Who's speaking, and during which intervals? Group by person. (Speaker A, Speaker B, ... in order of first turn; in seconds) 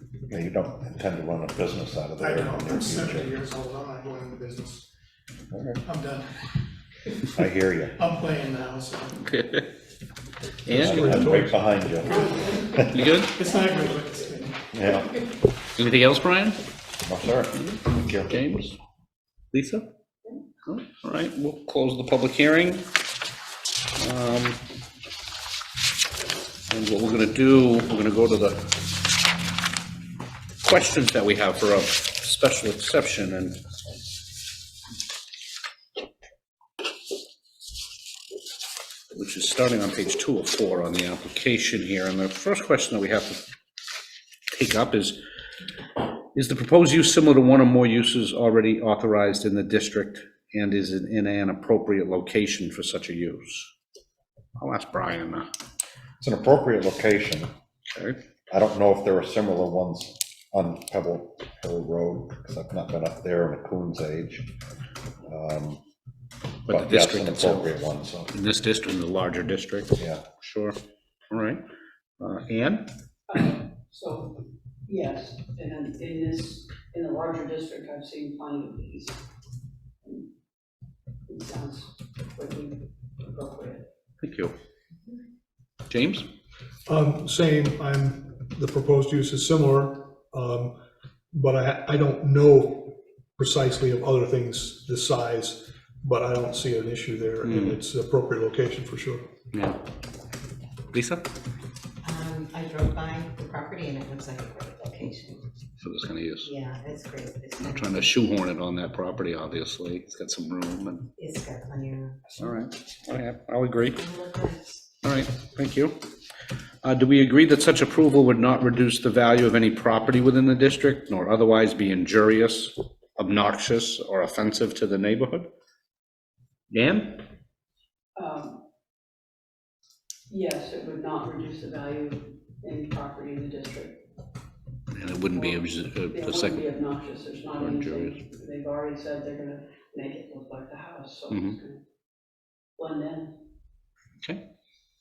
Speaker A: 0.3-3.4, 5.5-5.8, 7.3-8.0, 10.8-13.0, 14.7-15.1, 17.0-18.4, 56.2-57.5, 58.5-64.5, 65.2-65.8, 66.7-68.3, 70.0-70.2
Speaker B: 2.2-4.9, 5.8-6.3, 8.0-9.3, 12.4-14.9
Speaker C: 9.2-9.7, 10.7-11.1, 12.8-13.3, 15.8-16.6, 17.6-18.8, 19.5-19.9, 20.6-22.9, 24.0-24.6, 26.7-28.7, 30.6-33.6, 39.1-43.4, 44.5-45.2, 46.4-53.7, 54.6-55.5, 57.9-58.2, 66.7-67.7, 68.3-70.8, 71.3-71.6, 72.2-72.9, 84.2-84.5, 85.9-86.3, 97.4-97.8, 99.5-99.8, 100.9-101.3, 105.8-106.5, 107.6-111.1, 112.4-114.0, 115.0-116.0, 116.8-125.5, 126.7-127.2, 134.9-136.7, 137.6-138.2, 141.3-141.6
Speaker D: 10.7-12.2, 86.9-90.8, 91.3-99.3
Speaker E: 73.3-79.2, 80.0-80.3, 81.3-83.9, 128.2-128.6, 130.3-134.0, 135.4-141.8, 142.8-143.4
Speaker F: 102.0-105.4, 106.4-108.0, 111.2-112.6, 113.8-114.9